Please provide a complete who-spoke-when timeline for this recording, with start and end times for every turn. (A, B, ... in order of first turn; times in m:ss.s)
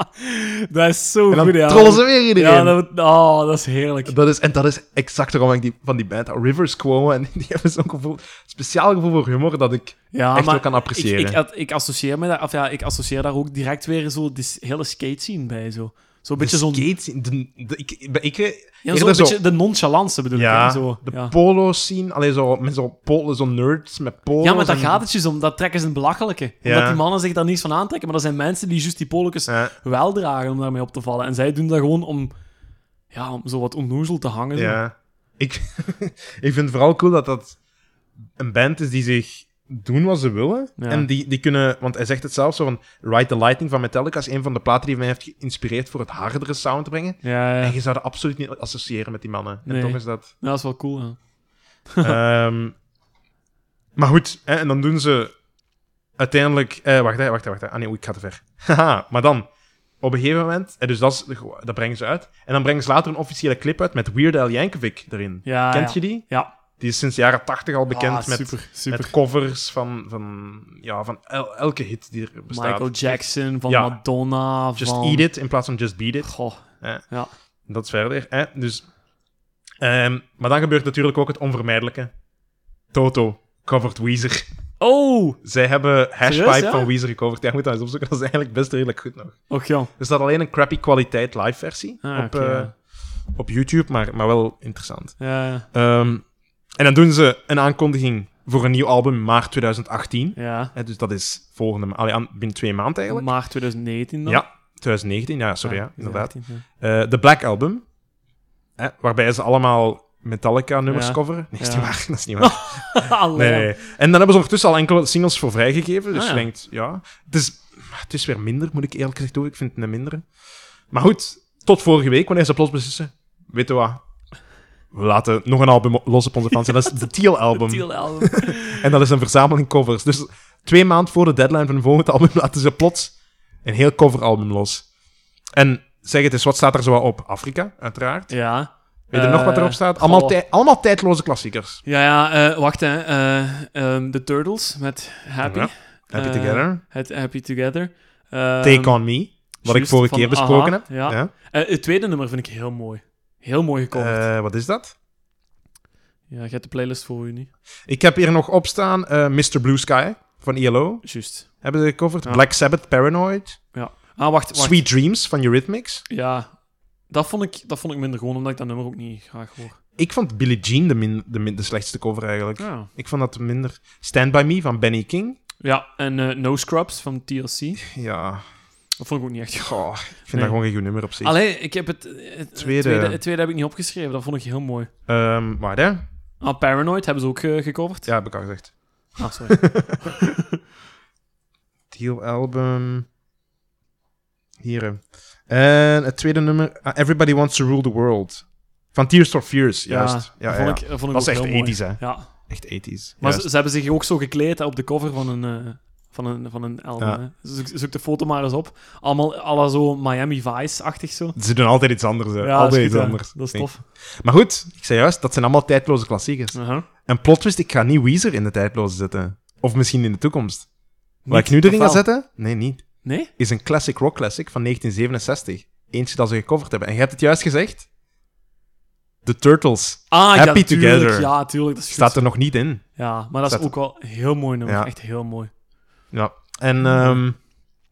0:00.2-0:04.1 A
0:01.3-0:02.8 B
0:04.0-0:11.4 B
0:10.1-0:16.9 A
0:16.4-0:19.4 B
0:18.8-0:21.3 A
0:20.3-0:25.0 B
0:24.4-0:32.4 A
0:26.6-0:27.0 B
0:29.5-0:29.7 B
0:33.0-0:34.8 A
0:34.5-0:37.6 B
0:38.4-0:50.3 B
0:40.8-0:41.1 A
0:47.2-0:47.8 A
0:49.6-0:52.1 A
0:52.0-0:52.8 B
0:54.0-0:55.3 B
0:56.2-0:59.4 B
1:00.0-1:14.0 B
1:05.4-1:06.5 A
1:07.9-1:09.1 A
1:12.5-1:15.3 A
1:14.8-1:17.0 B
1:16.2-1:17.3 A
1:17.7-1:19.0 B
1:19.8-1:22.1 B
1:22.9-1:24.4 B
1:24.8-1:25.4 A
1:25.4-1:43.4 B
1:26.2-1:26.9 A
1:29.5-1:29.9 A
1:32.0-1:32.7 A
1:35.2-1:35.6 A
1:40.3-1:40.7 A
1:43.1-1:44.4 A
1:44.2-1:47.9 B
1:45.6-1:46.6 A
1:48.8-2:00.4 B
1:50.9-1:53.7 A
1:56.1-1:56.5 A
2:00.9-2:04.0 B
2:04.9-2:14.9 B
2:07.5-2:08.8 A
2:15.5-2:21.8 B
2:18.3-2:20.4 A
2:21.8-2:34.3 A
2:25.4-2:26.8 B
2:28.6-2:31.3 B
2:33.9-2:34.9 B
2:36.3-2:37.5 A
2:37.8-2:43.8 B
2:41.0-2:42.5 A
2:43.7-2:44.9 A
2:44.5-2:46.0 B
2:46.1-2:49.8 A
2:50.0-2:55.4 B
2:52.6-2:52.9 A
2:55.6-2:57.8 A
2:57.9-2:58.4 B
2:59.0-3:04.9 A
2:59.6-3:01.4 B
3:02.6-3:03.2 B
3:05.1-3:06.0 B
3:06.4-3:08.4 A
3:08.0-3:10.0 B
3:09.2-3:10.3 A
3:11.9-3:13.1 B
3:14.6-3:23.5 B
3:19.9-3:31.4 A
3:31.4-3:47.9 B
3:32.4-3:33.8 A
3:36.5-3:36.9 A
3:41.2-3:42.1 A
3:43.0-3:43.3 A
3:49.2-3:53.8 B
3:50.1-3:55.7 A
3:54.6-3:54.9 B
3:56.1-3:57.4 B
3:56.8-3:57.2 A